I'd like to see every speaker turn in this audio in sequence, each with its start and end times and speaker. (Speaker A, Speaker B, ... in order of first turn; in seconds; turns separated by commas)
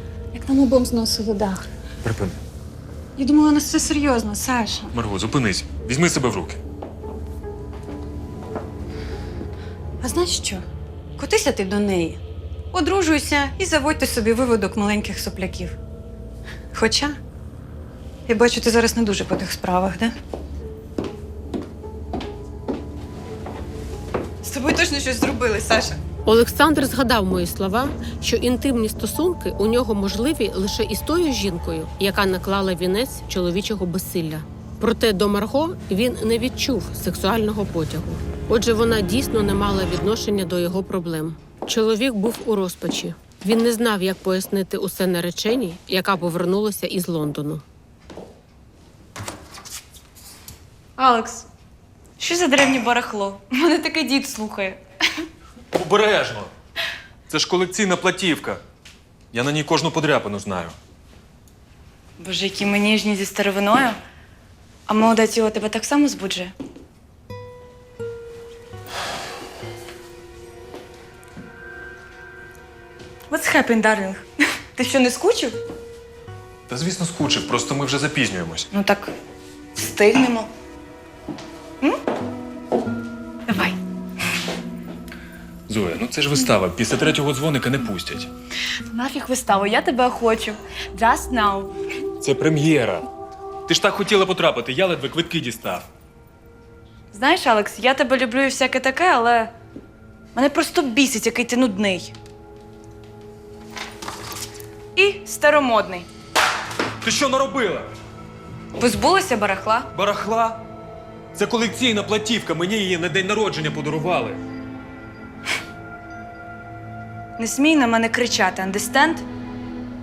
Speaker A: 0.3-1.7, Speaker B: 2.0-2.4, Speaker A: 3.2-4.9, Speaker B: 4.9-6.6, Speaker A: 10.0-10.6, Speaker A: 11.2-12.2, Speaker A: 12.7-15.8, Speaker A: 16.7-17.2, Speaker A: 18.3-20.1, Speaker A: 24.4-26.0, Speaker C: 26.3-47.6, Speaker D: 51.0-51.5, Speaker D: 52.2-54.8, Speaker B: 55.7-56.5, Speaker B: 57.3-58.6, Speaker B: 59.3-60.8, Speaker D: 62.2-64.0, Speaker D: 64.9-66.5, Speaker D: 73.3-75.6, Speaker B: 76.7-78.7, Speaker D: 78.7-79.1, Speaker D: 79.8-80.5, Speaker D: 83.5-83.8, Speaker B: 85.7-88.3, Speaker D: 88.9-91.8, Speaker B: 92.2-93.1, Speaker B: 93.7-95.9, Speaker D: 97.1-99.5, Speaker D: 100.3-102.1, Speaker D: 105.0-106.1, Speaker B: 107.0-107.9, Speaker D: 108.8-109.9, Speaker B: 109.9-110.6, Speaker B: 111.3-114.4, Speaker D: 117.4-119.2